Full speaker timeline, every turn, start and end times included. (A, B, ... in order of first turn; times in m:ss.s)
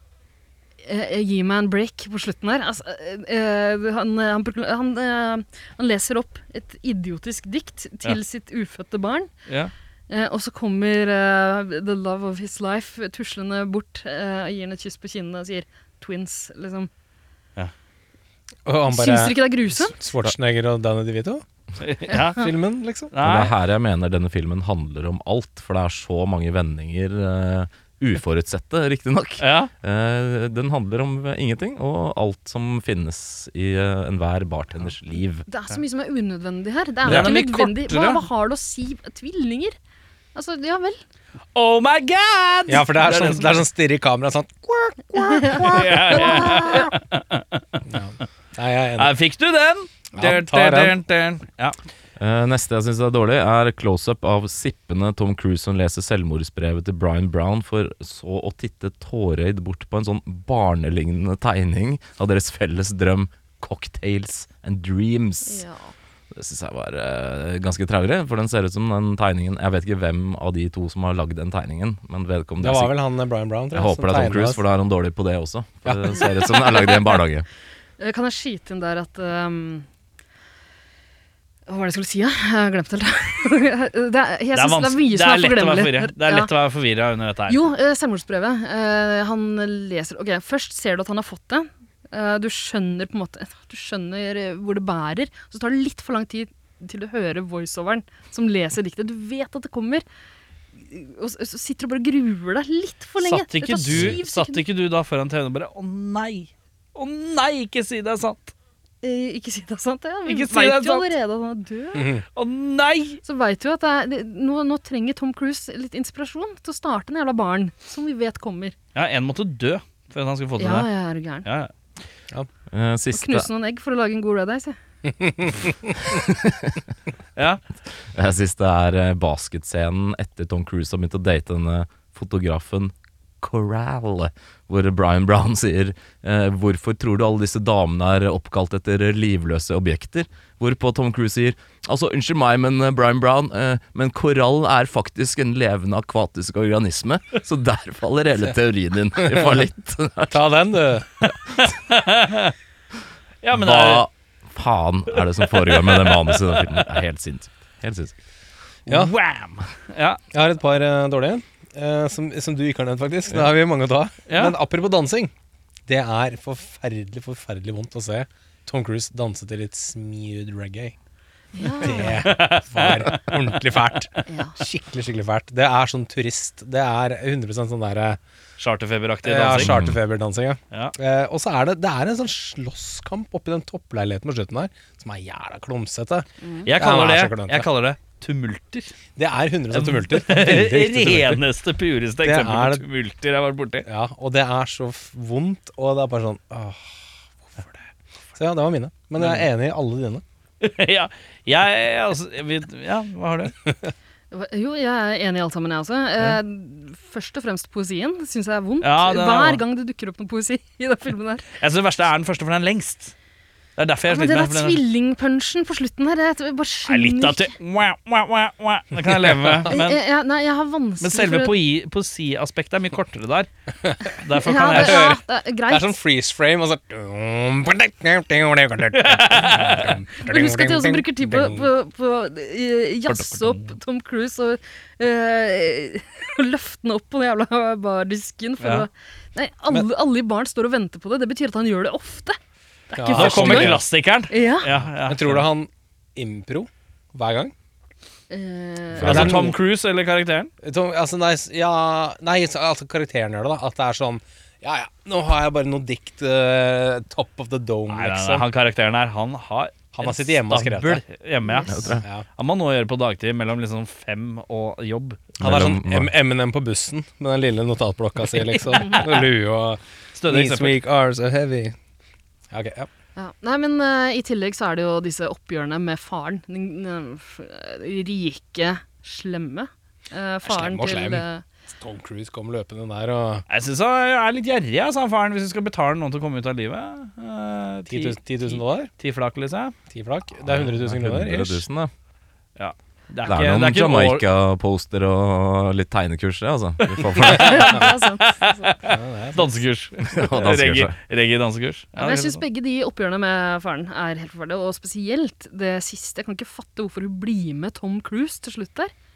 0:00.8-0:09.3 A
0:09.4-0:09.7 B
0:10.1-0:16.9 A
0:18.6-0:21.4 C
0:18.9-0:20.0 A
0:21.8-0:22.5 B
0:22.3-0:23.1 C
0:23.1-0:23.5 B
0:23.2-0:35.5 D
0:29.4-0:29.7 B
0:35.5-0:39.8 A
0:37.0-0:38.2 B
0:40.3-0:41.0 A
0:41.5-0:43.6 B
0:42.7-0:46.8 C
0:45.3-0:46.9 A
0:45.6-0:47.8 B
0:47.8-0:49.1 C
0:49.0-0:51.8 B
0:50.1-0:51.0 C
0:52.2-1:05.6 D
1:05.4-1:05.9 A
1:06.3-1:12.9 D
1:12.6-1:14.6 C
1:13.7-1:17.5 D
1:15.8-1:16.1 C
1:16.5-1:17.0 A
1:18.0-1:19.9 A
1:21.7-1:26.5 A
1:24.5-1:27.6 B
1:27.5-1:40.0 A
1:40.8-1:44.6 A
1:43.2-1:48.5 B
1:49.0-1:52.2 A
1:50.2-1:51.1 B
1:51.9-1:52.2 C
1:52.3-1:53.2 B
1:53.2-1:58.7 A
1:58.9-2:00.9 B
2:00.6-2:01.4 A
2:01.4-2:01.7 B
2:02.7-2:03.5 D
2:03.1-2:04.8 A
2:05.0-2:05.9 C
2:06.1-2:06.8 D
2:07.4-2:07.6 B
2:08.1-2:30.4 D
2:29.3-2:29.6 C
2:30.3-2:31.1 C
2:31.3-2:32.5 B
2:33.4-2:34.0 B
2:33.5-2:38.1 D
2:35.1-2:36.9 B
2:38.9-2:39.1 C
2:38.9-2:40.2 B
2:40.3-2:45.3 C
2:44.3-2:44.5 B
2:45.9-2:50.9 C
2:51.5-2:52.2 A
2:51.8-2:58.2 C
2:51.8-2:53.9 B
2:54.2-2:54.5 A
2:58.6-2:59.7 B
2:59.2-3:07.6 C
2:59.5-3:00.0 D
3:06.4-3:06.7 A
3:06.6-3:08.9 B
3:09.2-3:11.4 C
3:09.7-3:13.8 B
3:12.2-3:12.8 C
3:13.8-3:17.7 C
3:18.3-3:20.2 C
3:19.2-3:19.4 B
3:20.6-3:23.5 B
3:24.3-3:31.4 A
3:28.8-3:29.6 B
3:31.6-3:33.1 B
3:33.8-3:34.8 B
3:34.1-3:37.5 A
3:36.9-3:40.0 B
3:39.6-3:41.5 A
3:41.0-3:43.5 B
3:43.8-3:44.1 C
3:44.1-3:45.1 B
3:44.3-3:45.9 A
3:44.7-3:51.7 C
3:48.9-3:50.0 B
3:50.2-4:02.4 A
3:53.1-3:53.7 B
3:58.6-3:58.8 B
4:02.9-4:04.7 A
4:02.9-4:03.8 C
4:03.1-4:05.4 B
4:04.9-4:07.5 C
4:08.3-4:09.5 A
4:09.0-4:09.6 C
4:09.0-4:10.5 B
4:10.6-4:18.4 C
4:17.9-4:25.2 B
4:19.9-4:21.0 C
4:21.4-4:21.7 A
4:21.6-4:22.0 D
4:22.0-4:22.2 C
4:25.4-4:26.1 D
4:25.4-4:31.8 C
4:28.7-4:29.0 B
4:30.1-4:30.8 B
4:32.5-4:32.9 C
4:33.2-4:41.4 A
4:40.4-4:43.4 C
4:43.5-4:49.7 B
4:47.9-4:48.9 C
4:49.9-4:51.6 C
4:50.4-4:51.9 D
4:52.6-4:54.2 B
4:53.3-4:57.9 D
4:56.8-5:02.4 B
4:57.2-4:58.7 A
4:58.8-4:59.6 C
5:00.1-5:00.9 D
5:02.0-5:08.9 A